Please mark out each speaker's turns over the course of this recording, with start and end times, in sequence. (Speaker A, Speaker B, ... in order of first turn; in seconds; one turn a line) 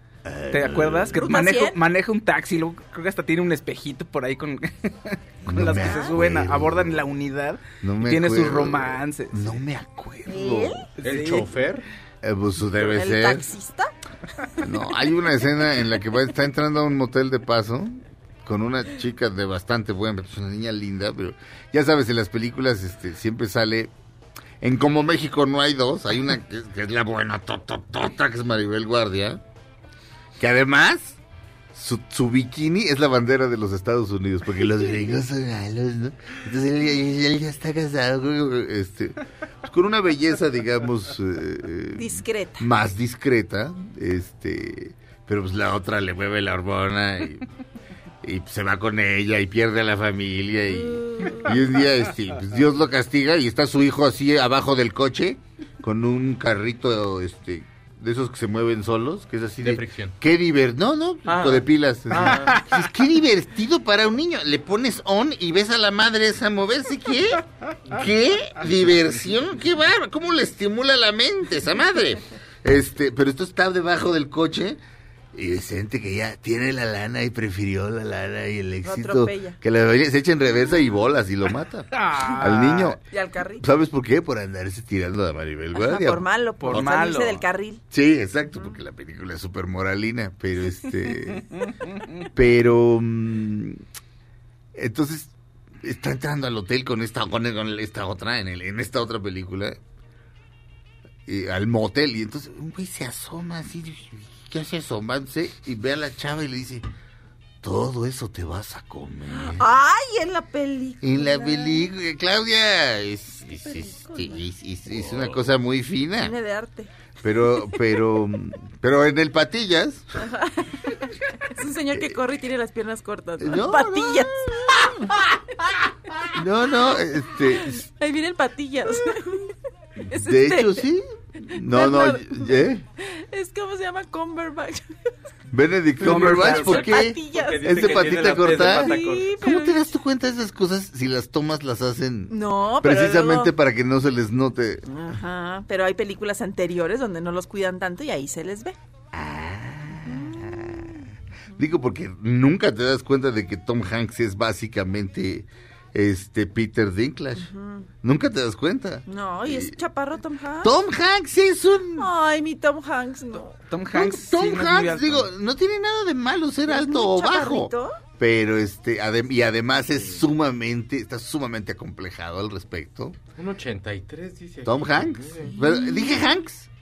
Speaker A: 0.2-1.2
Speaker B: 0.5-9.6
Speaker C: 1.2-1.8
Speaker A: 5.5-7.0
Speaker C: 5.8-6.2
Speaker A: 7.8-10.9
Speaker C: 10.3-10.8
Speaker B: 11.0-11.5
Speaker D: 11.0-11.8
Speaker A: 12.2-13.5
Speaker C: 12.9-13.9
Speaker A: 14.6-23.9
Speaker A: 24.6-29.4
Speaker A: 30.4-31.2
Speaker A: 31.7-47.5
Speaker C: 42.0-42.6
Speaker A: 48.2-74.8
Speaker C: 50.7-51.6
Speaker D: 59.6-60.1
Speaker D: 61.3-62.6
Speaker A: 75.3-83.0
Speaker C: 78.8-79.6
Speaker B: 81.9-83.0
Speaker C: 83.1-83.7
Speaker A: 83.6-86.9
Speaker C: 85.8-87.8
Speaker B: 86.6-87.4
Speaker A: 87.9-91.6
Speaker A: 92.2-93.8
Speaker A: 94.7-99.8
Speaker A: 101.3-106.9
Speaker A: 107.6-109.6
Speaker C: 109.3-111.9
Speaker A: 111.0-116.3
Speaker C: 113.6-114.4
Speaker C: 116.2-116.9
Speaker A: 117.2-120.1
Speaker C: 120.2-126.3
Speaker A: 123.4-124.8
Speaker A: 126.3-127.9
Speaker C: 127.6-129.5
Speaker C: 130.1-130.9
Speaker A: 130.1-132.8
Speaker C: 131.5-134.8
Speaker A: 135.5-144.9
Speaker B: 136.0-136.9
Speaker C: 136.3-139.8
Speaker D: 137.3-139.3
Speaker C: 142.3-143.5
Speaker C: 144.9-148.8
Speaker A: 149.1-151.0
Speaker C: 150.1-151.1
Speaker A: 151.6-157.5
Speaker C: 157.4-157.9
Speaker A: 158.0-159.8
Speaker C: 159.1-160.8
Speaker A: 160.6-162.1
Speaker C: 162.0-163.6
Speaker B: 163.7-165.3
Speaker A: 163.9-173.2
Speaker C: 166.7-168.0
Speaker D: 173.4-175.6
Speaker A: 174.7-176.7
Speaker C: 175.5-176.2